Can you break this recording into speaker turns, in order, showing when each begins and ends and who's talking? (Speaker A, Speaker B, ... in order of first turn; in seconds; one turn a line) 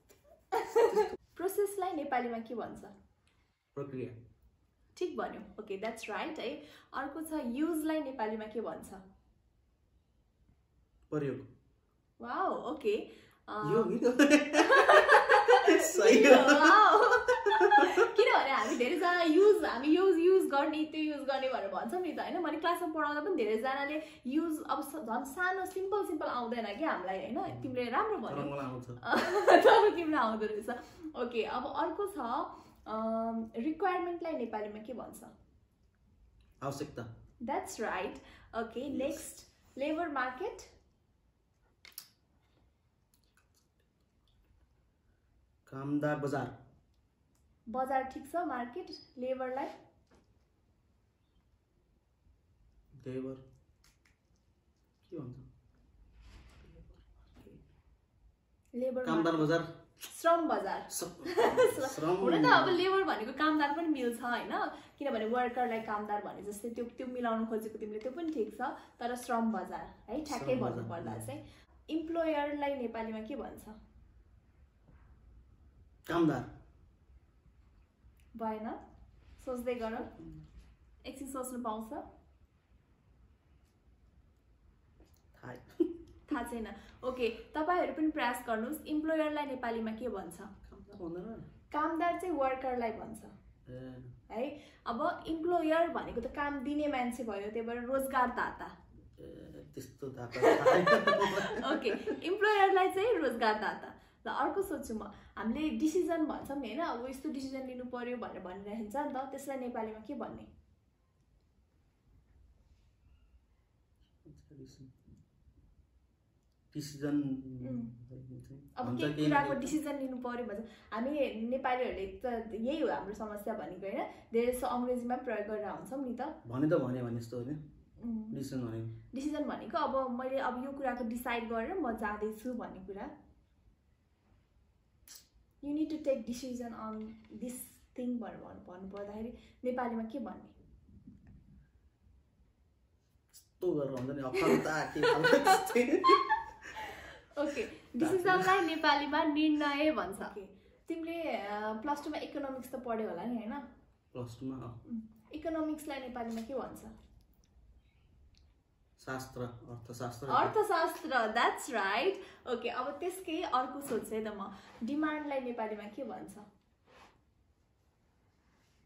Speaker A: 0.5-2.9
Speaker B: 3.7-4.2
Speaker A: 4.9-9.0
Speaker B: 11.1-11.5
Speaker A: 12.2-13.9
Speaker B: 13.6-18.0
Speaker A: 14.7-35.3
Speaker B: 28.3-29.0
Speaker B: 36.6-37.1
Speaker A: 37.4-40.7
Speaker B: 38.9-39.2
Speaker B: 45.6-46.6
Speaker A: 47.7-49.7
Speaker B: 53.0-53.4
Speaker B: 55.0-55.5
Speaker B: 56.6-57.6
Speaker A: 58.7-59.5
Speaker B: 59.0-59.7
Speaker A: 60.0-73.8
Speaker B: 60.9-62.8
Speaker B: 70.2-71.3
Speaker B: 76.1-76.5
Speaker A: 78.3-78.8
Speaker A: 79.4-80.1
Speaker A: 81.0-82.0
Speaker B: 85.3-85.9
Speaker A: 86.3-90.5
Speaker B: 90.7-91.5
Speaker A: 91.7-93.3
Speaker B: 93.7-94.1
Speaker A: 94.3-98.7
Speaker B: 99.2-102.2
Speaker A: 100.3-110.5
Speaker B: 114.2-114.9
Speaker B: 116.7-119.8
Speaker A: 117.6-117.9
Speaker A: 118.8-126.3
Speaker B: 126.4-127.6
Speaker A: 128.0-128.4
Speaker B: 128.3-128.9
Speaker A: 129.1-133.1
Speaker A: 135.6-140.5
Speaker B: 143.6-146.7
Speaker A: 146.8-153.6
Speaker B: 148.0-148.7
Speaker B: 154.1-154.8
Speaker A: 154.8-156.9
Speaker B: 159.0-160.5
Speaker A: 160.3-166.4